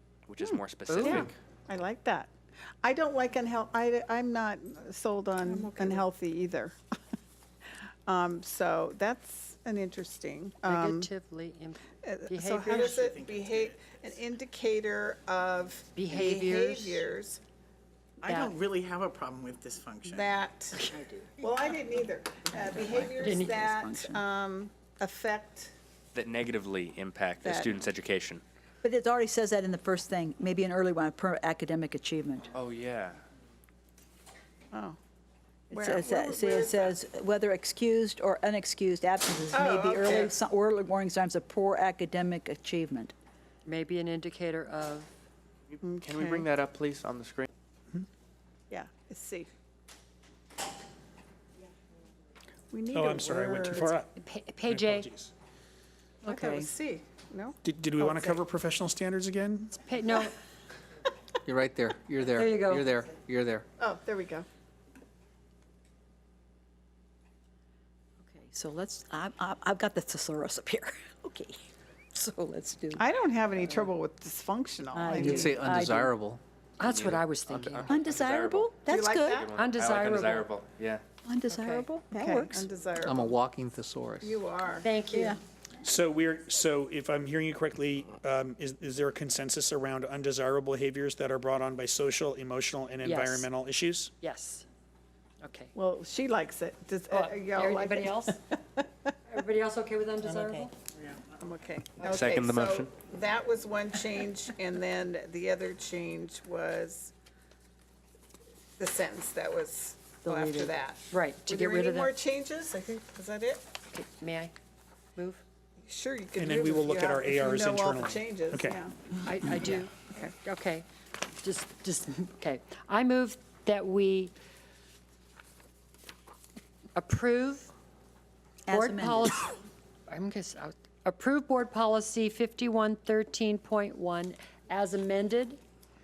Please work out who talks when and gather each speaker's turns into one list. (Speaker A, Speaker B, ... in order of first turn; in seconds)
Speaker A: 0.3-1.3, 26.1-28.4, 32.5-33.2, 45.7-47.5, 76.8-81.0, 102.0-102.9
Speaker B: 0.4-2.3, 2.8-6.8, 8.1-11.1, 12.0-17.4, 20.1-20.8, 21.4-25.7, 27.4-27.8, 34.7-35.0, 35.7-36.9, 39.5-40.3, 45.8-46.5, 48.7-49.5, 52.7-54.0, 56.2-58.4, 63.8-64.5, 73.0-75.6, 78.8-79.5, 82.1-83.4, 84.2-84.9, 95.7-98.8, 101.4-107.1, 108.8-113.6, 115.8-120.3
Speaker C: 0.9-1.3, 10.7-12.9, 15.9-17.0, 18.2-18.5, 23.2-23.6, 43.6-45.1, 54.2-55.1, 56.2-56.6, 59.8-60.4, 62.4-63.0, 76.8-77.9, 79.5-80.5, 81.5-81.9, 84.8-85.4, 93.0-93.5, 94.2-94.6, 95.4-95.7, 97.1-98.4, 99.3-100.7, 111.1-112.1, 113.9-114.5, 115.2-115.4, 119.2-120.9, 121.4-124.3, 127.0-127.7, 128.7-129.6, 130.1-135.6
Speaker D: 5.4-6.0, 22.6-24.2, 28.8-32.5, 35.7-43.1, 68.3-71.6, 72.1-73.0, 74.9-76.2, 77.9-79.4, 81.2-82.7, 85.1-85.4, 110.2-110.8, 128.7-129.4
Speaker E: 12.6-14.2, 18.2-20.4, 101.0-101.3
Speaker F: 52.9-54.1, 54.7-55.3, 57.6-59.7, 85.8-94.1, 116.4-118.8
Speaker G: 61.4-63.6, 75.2-76.4, 83.0-84.4